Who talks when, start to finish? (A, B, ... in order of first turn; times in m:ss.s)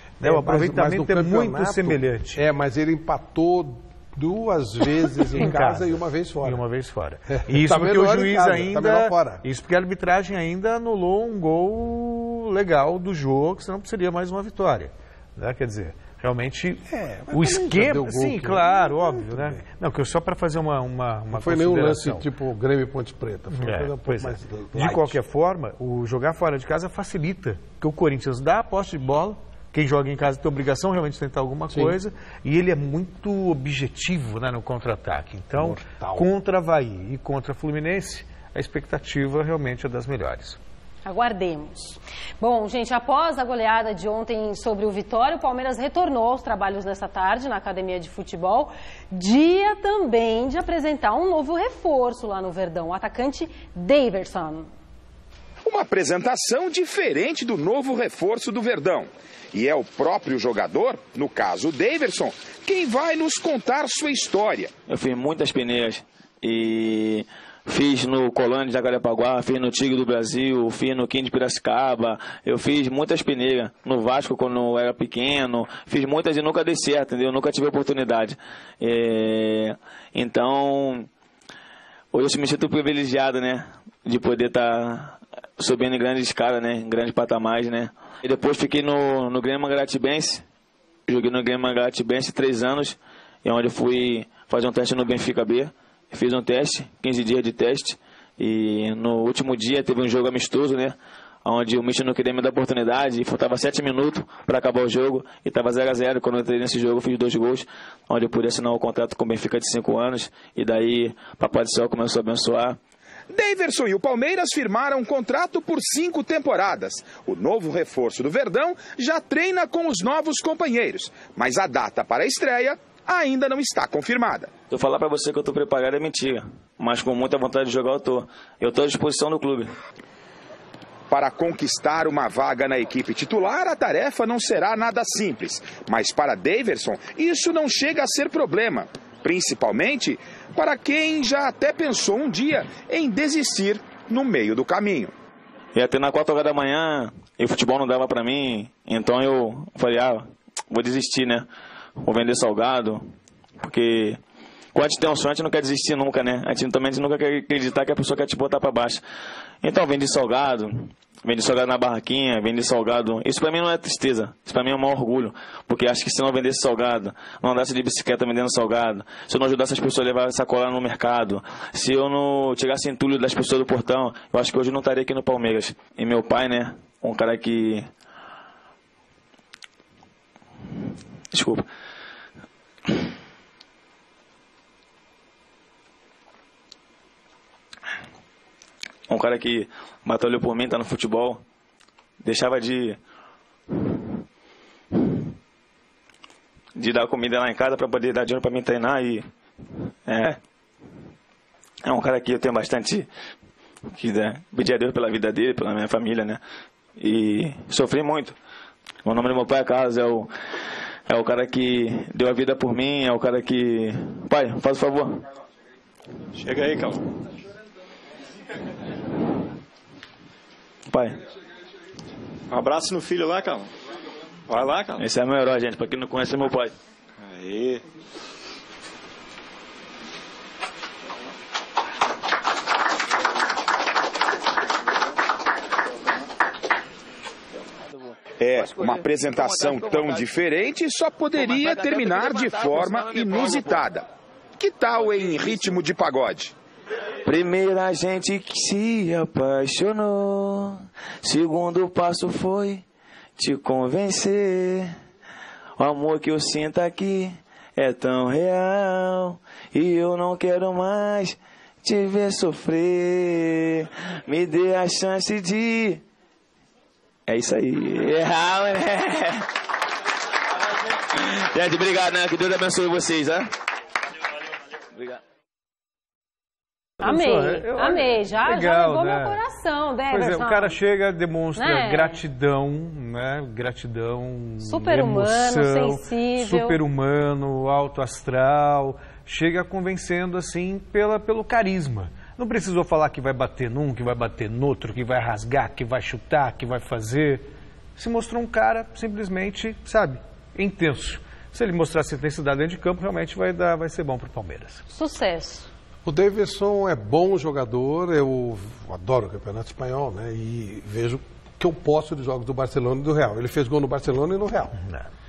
0:00.2-0:06.6 A
0:00.2-0:02.4 B
0:05.4-0:22.2 B
0:07.3-0:09.4 A
0:16.9-0:19.6 A
0:21.3-0:25.2 A
0:23.5-0:40.6 B
0:31.7-0:32.0 A
0:35.6-0:36.3 A
0:41.0-0:54.7 C
0:55.6-1:04.7 D
1:04.9-1:21.1 E
1:22.1-1:30.4 E
1:31.1-1:52.8 E
1:53.3-2:04.5 D
2:04.7-2:09.7 E
2:11.1-2:25.1 D
2:25.7-2:31.5 E
2:32.0-2:33.0 E
2:33.6-2:34.2 E
2:34.7-2:39.0 E
2:39.6-2:57.9 E
3:01.3-3:01.6 E
3:09.1-3:11.4 E
3:12.2-3:13.0 E
3:16.8-3:19.2 E
3:20.1-3:20.4 E
3:21.8-3:23.0 E
3:23.9-3:26.4 E
3:27.0-3:28.4 E
3:29.0-3:30.3 E
3:31.1-3:35.2 E
3:36.3-3:37.0 F
3:40.9-3:41.2 E
3:42.5-3:43.7 F
3:44.5-3:45.0 F
3:45.0-3:46.7 E
3:47.2-3:47.8 F
3:58.4-4:06.5 D
4:07.2-4:12.8 E
4:13.4-4:14.9 E
4:15.8-4:26.0 E
4:27.3-4:29.5 E
4:31.1-4:33.5 E
4:37.0-4:39.4 B
4:37.0-4:40.8 C
4:40.1-4:57.4 B
4:41.6-4:42.2 C
4:44.6-4:46.8 C
4:58.0-5:04.8 B
5:04.9-5:05.7 C
5:06.0-5:14.7 A
5:14.8-5:15.1 B